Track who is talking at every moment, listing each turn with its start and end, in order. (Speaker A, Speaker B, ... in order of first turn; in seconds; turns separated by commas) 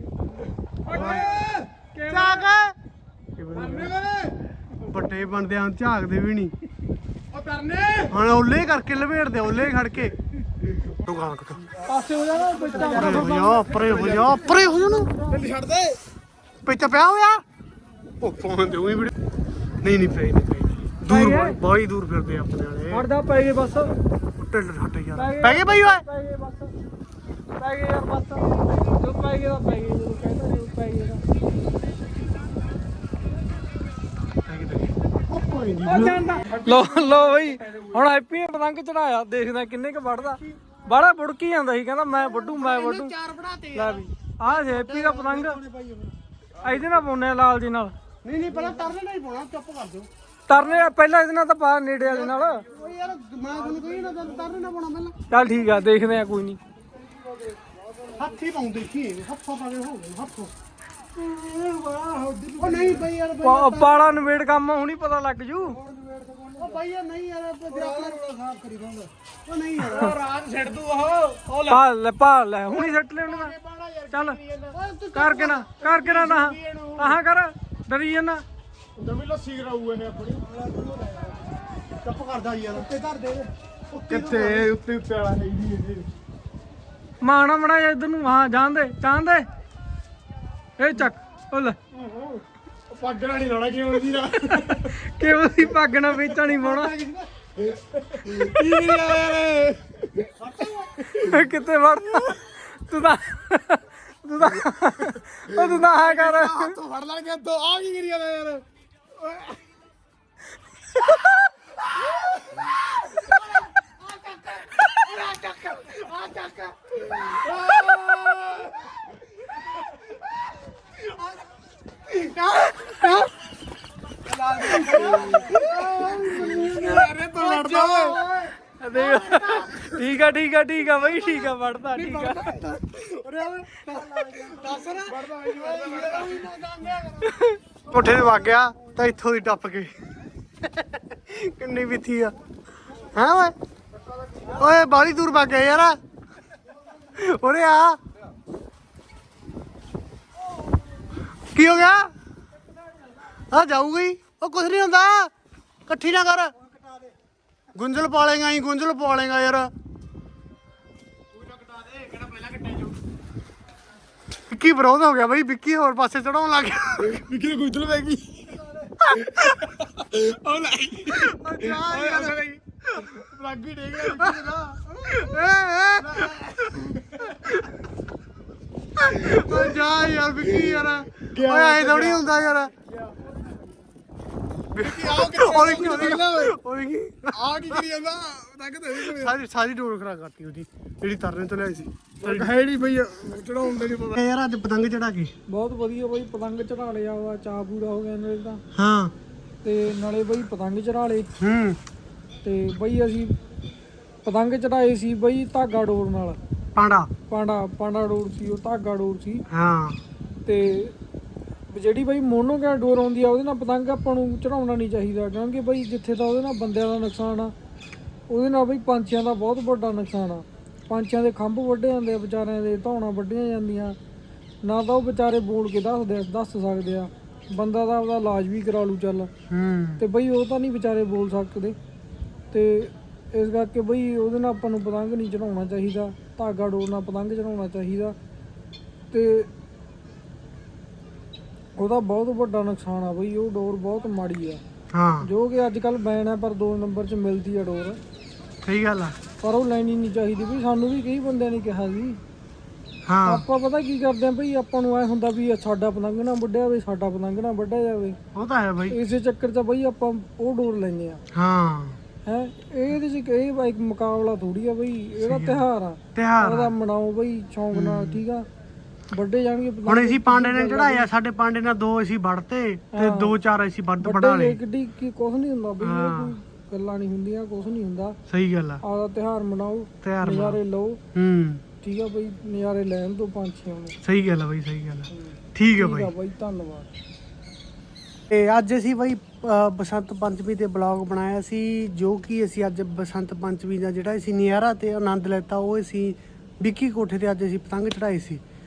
Speaker A: 0.9-2.5, Speaker B: 0.9-1.3, Speaker C: 1.2-1.7, Speaker B: 2.1-2.7, Speaker B: 3.4-4.0, Speaker C: 3.5-4.3, Speaker B: 4.9-6.5, Speaker C: 7.3-8.2, Speaker B: 8.1-10.2, Speaker B: 11.0-11.6, Speaker A: 11.8-15.5, Speaker C: 12.9-14.4, Speaker B: 12.9-15.1, Speaker C: 15.3-16.0, Speaker B: 16.6-17.4, Speaker B: 18.2-19.1, Speaker B: 19.8-23.1, Speaker A: 21.1-21.6, Speaker A: 22.9-23.9, Speaker B: 24.4-26.0, Speaker A: 25.1-26.7, Speaker A: 27.6-31.2, Speaker B: 34.5-36.2, Speaker A: 35.8-43.1, Speaker B: 42.1-45.7, Speaker A: 43.7-45.6, Speaker A: 46.6-47.9, Speaker B: 48.2-50.8, Speaker A: 50.5-52.6, Speaker B: 52.0-55.1, Speaker A: 55.3-56.6, Speaker B: 58.1-60.5, Speaker C: 61.6-62.3, Speaker B: 62.6-64.0, Speaker A: 63.4-65.8, Speaker C: 65.8-66.7, Speaker B: 66.6-68.2, Speaker C: 68.6-69.0, Speaker B: 69.5-70.1, Speaker A: 69.8-70.1, Speaker C: 70.0-71.8, Speaker A: 71.7-73.5, Speaker C: 73.2-74.8, Speaker A: 74.1-74.4, Speaker B: 74.7-75.7, Speaker A: 75.1-78.4, Speaker C: 75.8-77.1, Speaker C: 79.0-81.3, Speaker B: 82.0-82.9, Speaker C: 83.0-83.4, Speaker B: 83.9-84.7, Speaker C: 84.0-86.1, Speaker A: 87.2-89.5, Speaker A: 90.8-91.8, Speaker C: 91.9-94.9, Speaker A: 94.5-96.9, Speaker B: 96.8-97.2, Speaker C: 97.6-100.4, Speaker A: 101.0-106.8, Speaker B: 106.1-107.1, Speaker C: 106.7-108.6, Speaker B: 113.1-118.0, Speaker C: 117.3-118.7, Speaker B: 122.1-123.3, Speaker B: 124.3-130.1, Speaker C: 124.7-125.4, Speaker A: 124.9-125.4, Speaker C: 126.1-128.2, Speaker A: 128.8-132.5, Speaker B: 130.9-137.3, Speaker C: 134.9-136.5, Speaker A: 137.2-137.5, Speaker B: 137.9-139.9, Speaker B: 140.6-142.3, Speaker B: 143.0-143.5, Speaker B: 144.5-146.0, Speaker B: 147.1-148.0, Speaker B: 151.5-152.1, Speaker B: 153.5-155.3, Speaker B: 155.9-156.5, Speaker B: 157.7-159.7, Speaker C: 161.5-162.9, Speaker B: 164.5-167.2, Speaker C: 167.0-175.0, Speaker B: 169.1-169.8, Speaker B: 171.1-172.4, Speaker B: 174.2-174.5, Speaker B: 175.0-176.8, Speaker C: 176.0-177.3, Speaker B: 177.4-177.8, Speaker B: 179.0-182.7, Speaker C: 180.6-182.2, Speaker B: 184.7-187.8, Speaker C: 184.8-186.5, Speaker C: 187.3-189.3, Speaker B: 188.9-192.5, Speaker C: 192.2-194.2, Speaker B: 194.2-195.3, Speaker A: 195.5-198.6, Speaker B: 198.7-199.1, Speaker A: 199.6-201.3, Speaker B: 201.4-201.8, Speaker A: 202.4-203.3, Speaker A: 204.2-206.4, Speaker B: 206.8-207.1, Speaker A: 207.3-209.4, Speaker B: 209.5-210.0, Speaker A: 210.4-210.9, Speaker A: 211.7-217.5, Speaker A: 218.3-224.0, Speaker A: 224.6-229.3, Speaker B: 229.5-230.0, Speaker A: 230.0-231.8, Speaker A: 232.5-238.2, Speaker A: 239.1-239.5, Speaker A: 241.8-244.6, Speaker B: 244.9-245.3, Speaker A: 245.2-248.0, Speaker B: 248.6-249.2, Speaker A: 249.4-252.2, Speaker B: 253.1-253.4, Speaker A: 253.2-258.2, Speaker B: 258.3-259.0, Speaker A: 258.9-261.2, Speaker B: 261.3-262.0, Speaker A: 262.2-268.4, Speaker B: 265.2-266.7, Speaker B: 267.7-268.2, Speaker A: 269.1-271.1, Speaker B: 269.8-274.6, Speaker A: 272.9-273.3, Speaker A: 274.0-278.1, Speaker B: 275.8-276.4, Speaker B: 278.3-278.8, Speaker A: 278.8-281.0, Speaker B: 280.0-280.6, Speaker B: 281.1-281.6, Speaker A: 281.8-283.9, Speaker B: 284.0-286.1, Speaker A: 285.1-286.9, Speaker B: 288.3-298.4